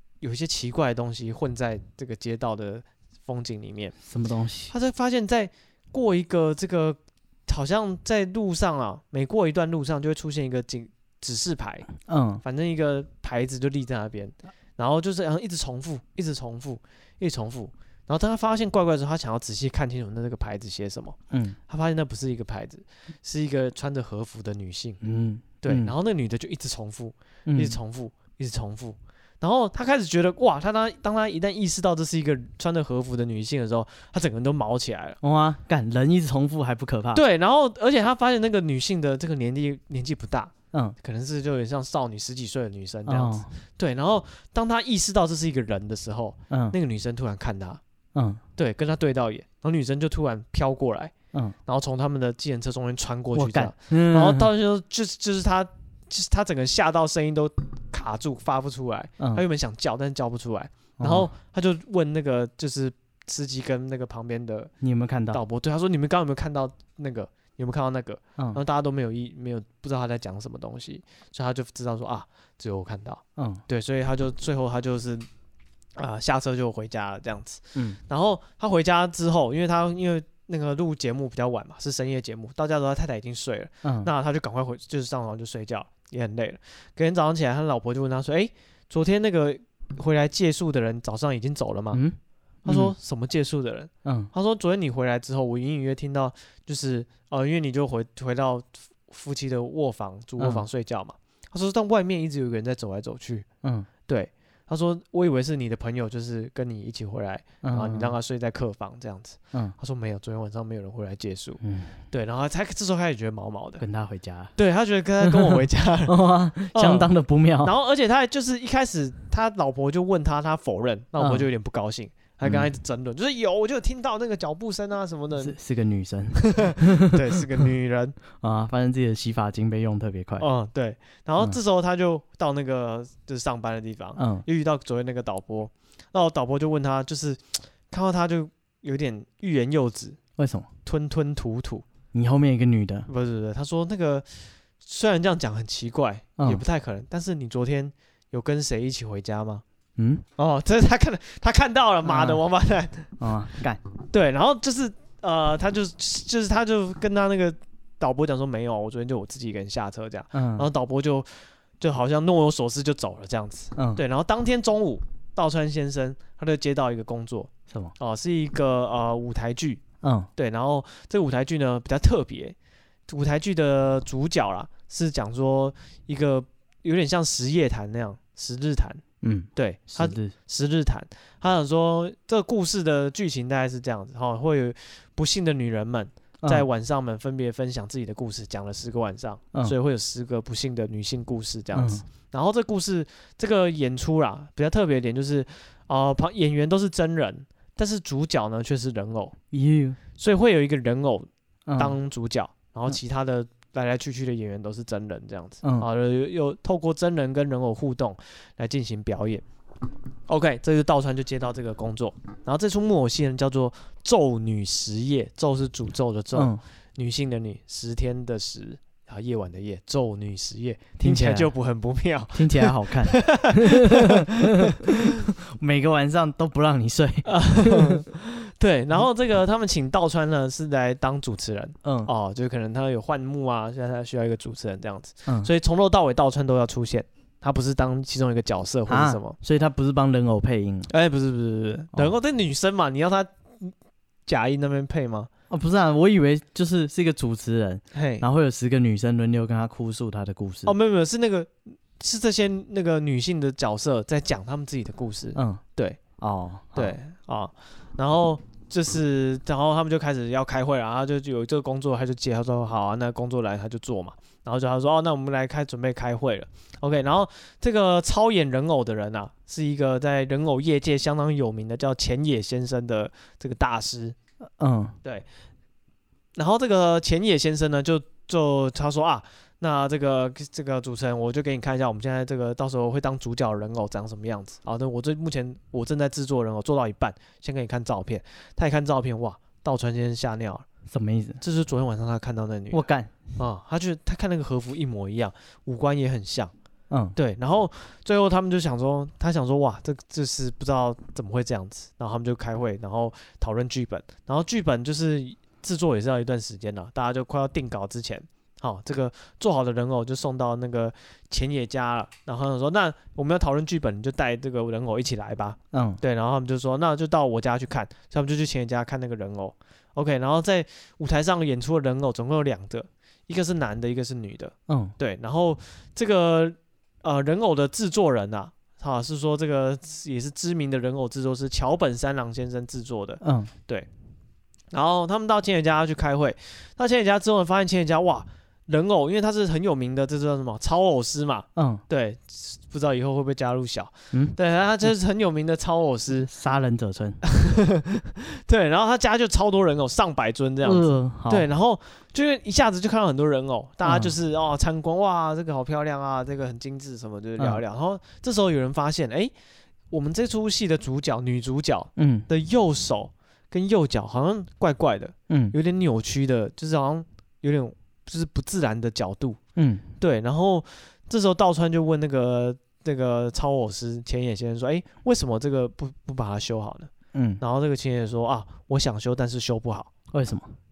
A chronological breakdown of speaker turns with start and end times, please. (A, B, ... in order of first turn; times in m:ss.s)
0:00.2-0:04.0 A
0:04.1-0:04.7 B
0:04.7-0:11.9 A
0:12.0-0:12.4 B
0:12.4-0:25.0 A
0:21.3-0:21.6 B
0:25.0-0:25.9 B
0:25.6-0:35.2 A
0:27.5-0:27.8 B
0:35.2-0:37.2 B
0:37.1-0:47.8 A
0:43.1-0:43.5 B
0:46.5-0:46.8 B
0:48.2-0:48.4 B
0:48.6-0:51.1 A
0:51.7-1:04.7 A
0:53.4-0:54.5 B
1:01.0-1:01.3 B
1:04.8-1:05.4 B
1:05.3-1:15.3 A
1:13.4-1:13.6 B
1:16.0-1:32.0 A
1:23.8-1:24.1 B
1:31.9-1:32.9 B
1:32.6-1:43.5 A
1:34.0-1:34.3 B
1:43.6-1:43.9 B
1:44.1-1:51.6 A
1:47.6-1:48.1 B
1:51.6-1:52.0 B
1:52.1-1:53.8 A
1:53.8-1:54.5 B
1:54.6-1:56.2 A
1:55.2-1:57.7 B
1:56.7-1:57.1 A
1:57.6-2:05.6 A
2:01.2-2:01.5 B
2:05.4-2:07.6 B
2:06.4-2:08.2 A
2:08.4-2:10.5 B
2:10.4-2:20.2 A
2:14.2-2:14.4 B
2:20.4-2:20.7 B
2:20.9-2:21.9 A
2:22.1-2:23.1 B
2:23.1-2:24.3 A
2:24.8-2:29.6 A
2:26.4-2:26.6 B
2:30.0-2:30.2 B
2:30.4-2:33.2 A
2:32.0-2:32.4 B
2:33.2-2:33.8 B
2:34.1-2:49.8 A
2:40.3-2:40.7 B
2:43.8-2:44.0 B
2:50.0-2:50.3 B
2:50.4-2:52.6 A
2:53.1-2:59.0 A
2:59.2-3:00.3 B
2:59.6-3:19.4 A
3:11.7-3:12.0 B
3:19.5-3:20.0 B
3:20.2-3:29.4 A
3:21.7-3:22.0 B
3:30.3-3:44.7 A
3:36.4-3:36.6 B
3:41.0-3:41.5 B
3:42.3-3:48.0 B
3:47.2-3:59.4 A
3:51.8-3:52.1 B
3:58.9-4:00.9 B
4:00.9-4:03.7 A
4:04.3-4:05.3 A
4:05.5-4:10.7 B
4:07.9-4:08.2 A
4:10.7-4:16.0 A
4:15.4-4:15.6 B
4:16.2-4:17.0 B
4:16.8-4:34.2 A
4:34.6-4:35.0 B
4:36.4-4:50.6 A
4:50.9-4:51.4 B
4:51.4-4:52.8 A
4:52.7-4:53.2 B
4:53.4-4:56.5 A
4:56.9-4:57.2 B
4:57.2-5:33.9 A
5:15.7-5:16.0 B
5:24.7-5:24.9 B
5:33.2-5:33.5 B
5:34.7-5:46.3 A
5:41.6-5:41.8 B
5:46.3-5:47.2 B
5:47.2-5:59.3 A
5:50.6-5:51.5 B
5:53.8-5:54.1 B
5:59.9-6:09.4 A
6:02.0-6:02.3 B
6:05.3-6:05.6 B
6:09.6-6:09.8 B
6:10.0-6:19.9 A
6:17.1-6:17.4 B
6:20.1-6:20.5 B